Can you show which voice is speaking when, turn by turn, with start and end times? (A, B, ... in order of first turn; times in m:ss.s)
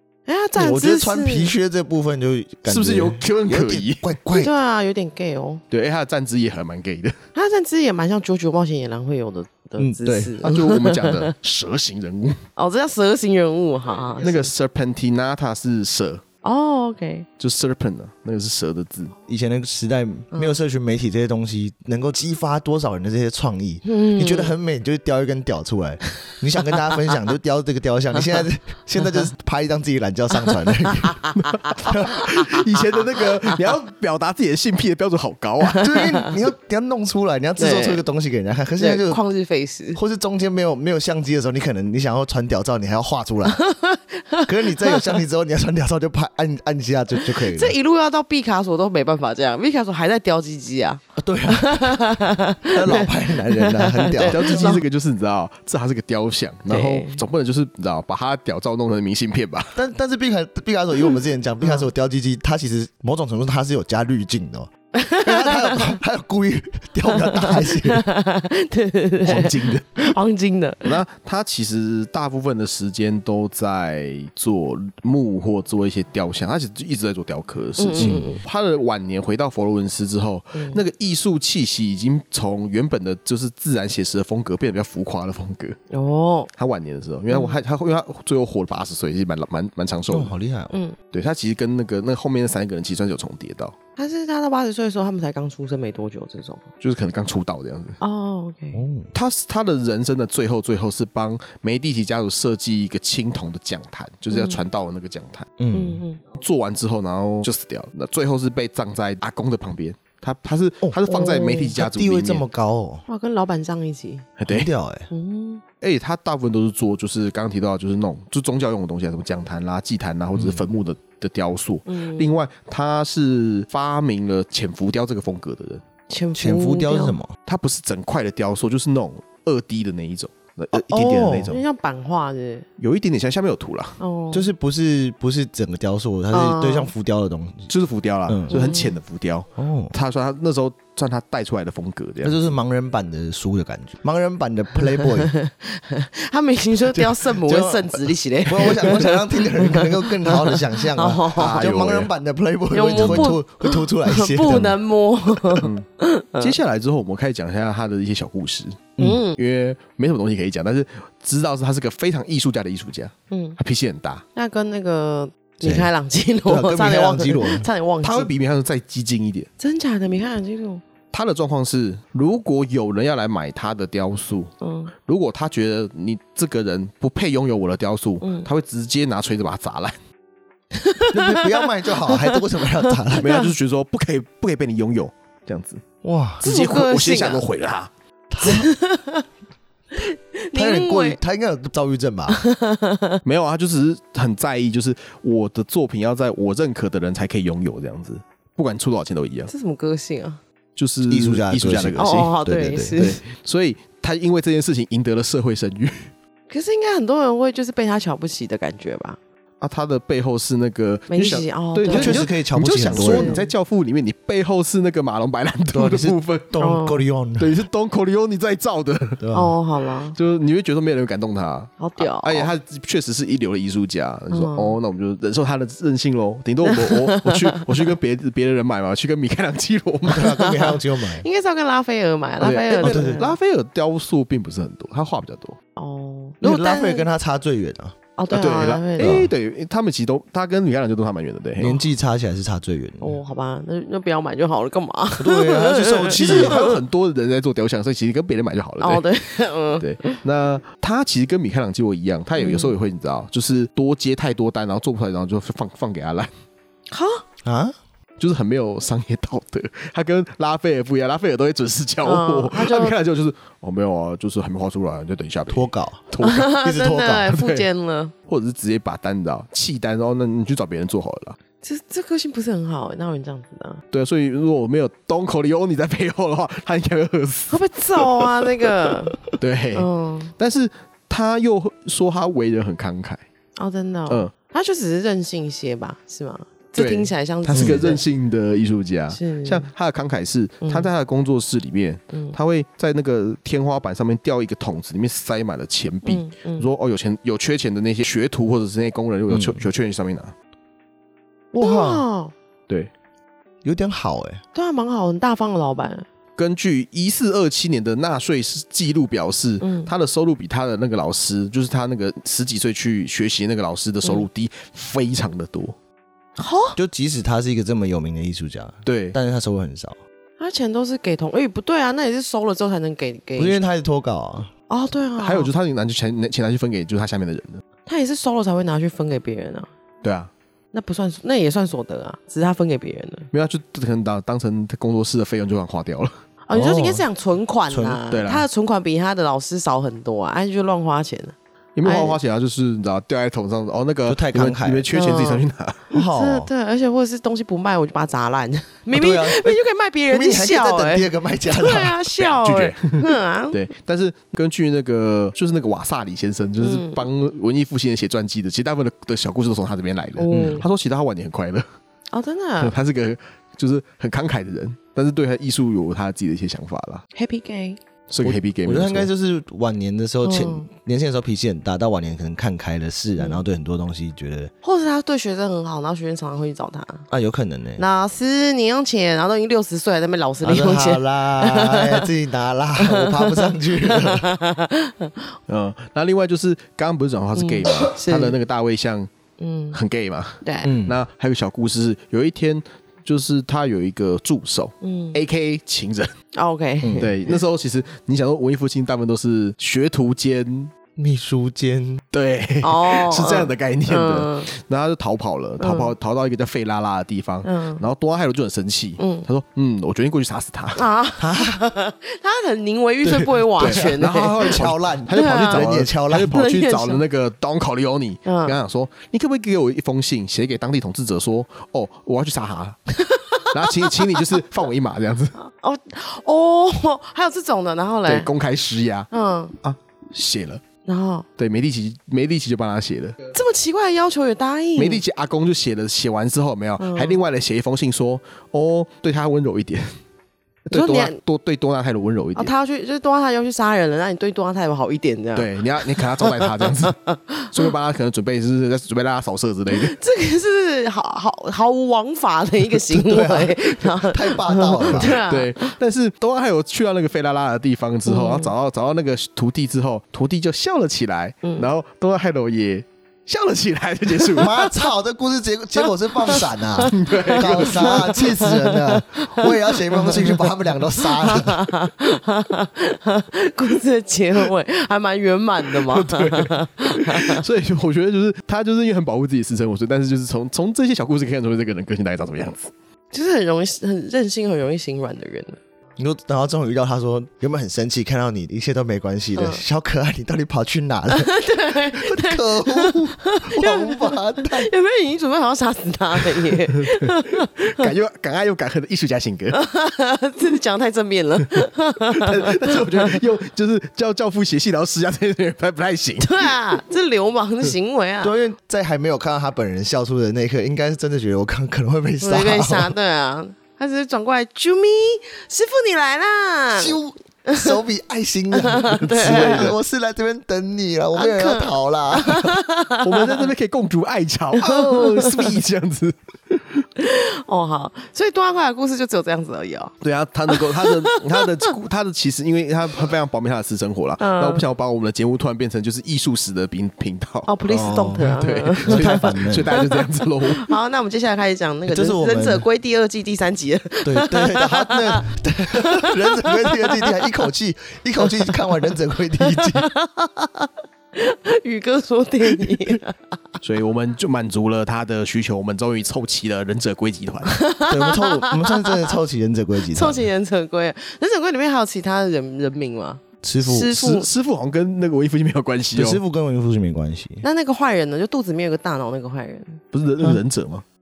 0:00.3-0:01.5 A
0:00.6-0:04.5 B
0:02.7-0:04.1 C
0:04.3-0:05.6 A
0:05.7-0:07.2 C
0:07.4-0:11.3 A
0:09.8-0:10.4 B
0:10.4-0:12.4 C
0:12.6-0:14.5 A
0:14.2-0:16.2 C
0:16.4-0:17.3 A
0:17.4-0:19.1 C
0:19.3-0:31.3 B
0:20.3-0:20.6 A
0:23.8-0:24.5 A
0:31.0-0:31.7 A
0:31.4-0:35.9 C
0:31.9-0:32.3 B
0:35.7-0:36.3 A
0:35.8-0:39.2 B
0:37.6-0:38.0 A
0:38.8-0:40.0 A
0:40.0-0:43.6 B
0:43.5-0:45.2 A
0:44.5-0:47.8 B
0:47.2-0:54.8 A
0:51.2-0:52.1 B
0:52.7-0:54.8 B
0:54.3-0:59.8 C
0:56.7-0:57.2 A
0:59.8-1:08.0 B
1:04.9-1:06.0 A
1:07.1-1:11.0 A
1:09.2-1:10.1 C
1:10.8-1:25.8 C
1:17.8-1:18.4 A
1:18.0-1:18.3 B
1:20.5-1:20.8 A
1:25.9-1:26.5 A
1:26.6-1:30.3 C
1:27.3-1:27.6 A
1:30.1-1:30.7 B
1:30.7-1:31.0 A
1:31.1-1:33.8 C
1:34.0-1:36.6 A
1:36.8-1:38.0 C
1:38.0-1:38.8 A
1:38.7-1:39.1 B
1:39.1-1:45.5 C
1:44.3-1:44.6 A
1:45.6-1:46.0 B
1:45.7-1:46.2 A
1:46.4-1:52.4 C
1:51.1-1:51.7 A
1:51.7-1:53.0 B
1:53.1-1:54.3 A
1:54.4-1:54.7 C
1:54.5-1:55.1 B
1:55.1-1:55.6 A
1:55.8-2:05.8 C
2:00.4-2:00.7 B
2:01.9-2:02.4 A
2:06.1-2:07.2 A
2:06.4-2:07.3 B
2:07.5-2:11.6 C
2:10.7-2:11.5 B
2:11.5-2:12.7 A
2:12.8-2:14.0 C
2:14.0-2:14.5 A
2:14.3-2:17.7 B
2:16.3-2:16.9 A
2:17.7-2:22.5 C
2:18.3-2:18.5 B
2:18.5-2:19.0 A
2:19.6-2:19.9 B
2:22.2-2:25.3 B
2:25.0-2:31.7 A
2:26.9-2:34.8 B
2:31.4-2:32.1 C
2:32.7-2:36.6 A
2:32.9-2:33.3 C
2:35.5-2:35.9 C
2:36.4-2:44.2 C
2:39.0-2:39.2 B
2:39.0-2:39.4 A
2:43.3-2:43.6 A
2:44.4-2:48.3 A
2:45.6-2:45.9 B
2:46.4-2:47.7 B
2:48.0-2:49.5 C
2:49.6-2:50.8 A
2:51.1-2:54.5 C
2:54.6-2:54.9 A
2:55.1-3:00.0 C
2:58.2-2:58.5 A
3:00.7-3:03.5 A
3:01.1-3:03.3 B
3:03.2-3:05.8 C
3:06.0-3:06.4 B
3:06.4-3:07.9 C
3:06.4-3:07.4 A
3:08.3-3:08.7 B
3:08.4-3:09.2 A
3:09.9-3:11.2 A
3:10.6-3:12.4 B
3:12.3-3:13.2 A
3:13.2-3:19.5 C
3:19.5-3:20.4 A
3:20.8-3:22.4 C
3:21.1-3:23.1 B
3:22.0-3:23.2 A
3:23.0-3:26.1 C
3:26.5-3:29.2 A
3:29.6-3:36.5 C
3:31.1-3:33.5 A
3:31.9-3:33.5 B
3:35.7-3:37.6 B
3:36.6-3:37.0 A
3:37.4-3:39.2 C
3:39.2-3:39.6 B
3:39.3-3:40.2 A
3:40.1-3:50.5 C
3:41.8-3:42.5 A
3:44.3-3:44.8 A
3:46.6-3:47.6 A
3:50.1-3:51.3 B
3:50.1-3:53.4 A
3:52.4-3:55.6 C
3:52.8-3:53.2 B
3:55.8-3:57.1 A
3:56.4-3:58.0 B
3:58.2-3:59.2 A
3:58.3-4:01.8 C
3:59.0-3:59.3 B
4:01.6-4:03.2 B
4:03.0-4:06.8 A
4:05.2-4:06.7 B
4:06.1-4:09.0 C
4:08.8-4:10.2 A
4:09.8-4:16.3 C
4:12.4-4:12.8 A
4:16.9-4:17.2 A
4:17.4-4:17.8 B
4:18.2-4:26.5 C
4:22.0-4:23.0 A
4:25.5-4:27.3 B
4:26.2-4:28.1 A
4:27.3-4:27.7 C
4:28.3-4:31.4 C
4:31.6-4:33.8 A
4:33.9-4:38.5 C
4:37.5-4:39.2 A
4:39.3-4:43.2 C
4:39.8-4:40.3 A
4:43.6-4:48.0 A
4:46.8-5:00.3 C
4:47.6-4:47.9 B
4:49.1-4:49.7 A
4:50.6-4:50.9 A
4:52.1-4:52.4 A
4:56.0-4:56.7 A
4:59.3-4:59.7 B
5:01.5-5:02.0 B
5:01.6-5:02.3 A
5:03.6-5:04.4 B
5:04.5-5:06.1 A
5:06.4-5:15.8 C
5:09.6-5:09.9 A
5:16.4-5:16.8 A
5:16.8-5:20.0 B
5:18.9-5:19.2 C
5:20.4-5:23.6 A
5:23.4-5:24.5 B
5:24.7-5:25.5 A
5:25.2-5:27.6 C
5:27.9-5:29.7 A
5:30.0-5:30.3 C
5:30.7-5:33.3 A
5:33.3-5:36.1 C
5:36.5-5:42.2 A
5:36.5-5:37.0 B
5:37.7-5:38.0 B
5:38.1-5:38.5 C
5:41.8-5:45.8 C
5:44.1-5:44.9 B
5:44.9-5:53.6 A
5:45.9-5:46.5 B
5:48.9-5:49.6 B
5:50.1-5:52.0 B
5:52.2-6:01.7 C
5:56.6-5:57.0 A
6:00.2-6:00.7 A
6:00.3-6:00.6 B
6:02.1-6:02.8 A
6:02.6-6:07.0 C
6:07.2-6:07.8 A
6:08.1-6:09.1 C
6:08.2-6:14.5 B
6:10.2-6:10.7 A
6:13.2-6:13.4 A
6:14.6-6:17.1 A
6:17.1-6:17.8 B
6:17.8-6:22.1 A
6:20.4-6:24.3 B
6:22.8-6:25.4 A
6:25.5-6:29.1 C
6:27.4-6:28.4 A
6:29.4-6:29.8 A
6:29.7-6:36.1 C
6:30.4-6:30.7 A
6:30.6-6:31.0 B
6:34.8-6:35.2 A
6:36.3-6:37.4 A
6:36.8-6:37.1 B
6:37.0-6:40.7 C
6:41.0-6:42.0 B
6:42.1-6:50.8 C
6:42.6-6:44.5 A
6:45.6-6:45.9 A
6:47.4-6:47.8 A
6:49.0-6:49.3 A
6:50.8-6:57.0 A
6:51.2-6:51.6 B
6:53.1-7:02.8 C
6:53.6-6:56.4 B
6:58.2-6:58.6 A
7:02.9-7:04.4 A
7:03.5-7:05.4 C
7:05.4-7:08.3 A
7:08.1-7:09.1 C
7:09.1-7:09.6 A
7:09.6-7:10.6 C
7:10.8-7:11.3 A
7:11.4-7:13.2 C
7:13.3-7:15.0 A
7:14.8-7:20.0 C
7:16.8-7:17.2 A
7:20.7-7:22.5 C
7:20.7-7:21.2 A
7:22.4-7:27.7 A
7:25.4-7:27.0 C
7:27.5-7:30.0 C
7:29.7-7:35.8 A
7:32.9-7:35.2 B
7:34.9-7:44.5 C
7:38.1-7:38.5 A
7:44.2-7:44.8 A
7:44.4-7:51.7 B
7:46.2-7:50.5 A
7:46.8-7:48.3 C
7:51.0-7:57.4 A
7:55.7-8:02.7 C
8:03.1-8:05.6 A
8:06.0-8:11.3 B
8:09.4-8:09.6 A
8:11.1-8:17.9 A
8:11.9-8:14.7 B
8:16.9-8:17.1 C
8:17.7-8:19.6 C
8:19.5-8:23.2 A
8:22.1-8:26.5 C
8:26.2-8:28.3 A
8:28.2-8:33.0 B
8:32.2-8:37.8 A
8:36.8-8:42.6 B
8:38.5-8:39.7 A
8:39.1-8:39.8 C
8:41.2-8:43.5 A
8:43.0-8:46.8 C
8:44.6-8:45.6 A
8:47.0-8:50.0 A
8:50.0-8:57.5 C
8:50.5-8:51.7 A
8:54.2-8:54.7 A
8:57.5-9:07.3 A
8:57.7-8:59.8 B
8:58.4-9:00.7 C
9:01.9-9:02.6 B
9:04.0-9:09.9 B
9:08.2-9:13.2 A
9:13.6-9:17.6 C
9:17.5-9:19.1 A
9:17.9-9:20.3 B
9:19.9-9:24.3 A
9:23.4-9:23.9 B
9:23.9-9:26.2 C
9:26.0-9:27.4 B
9:27.4-9:29.8 A
9:29.9-9:30.8 C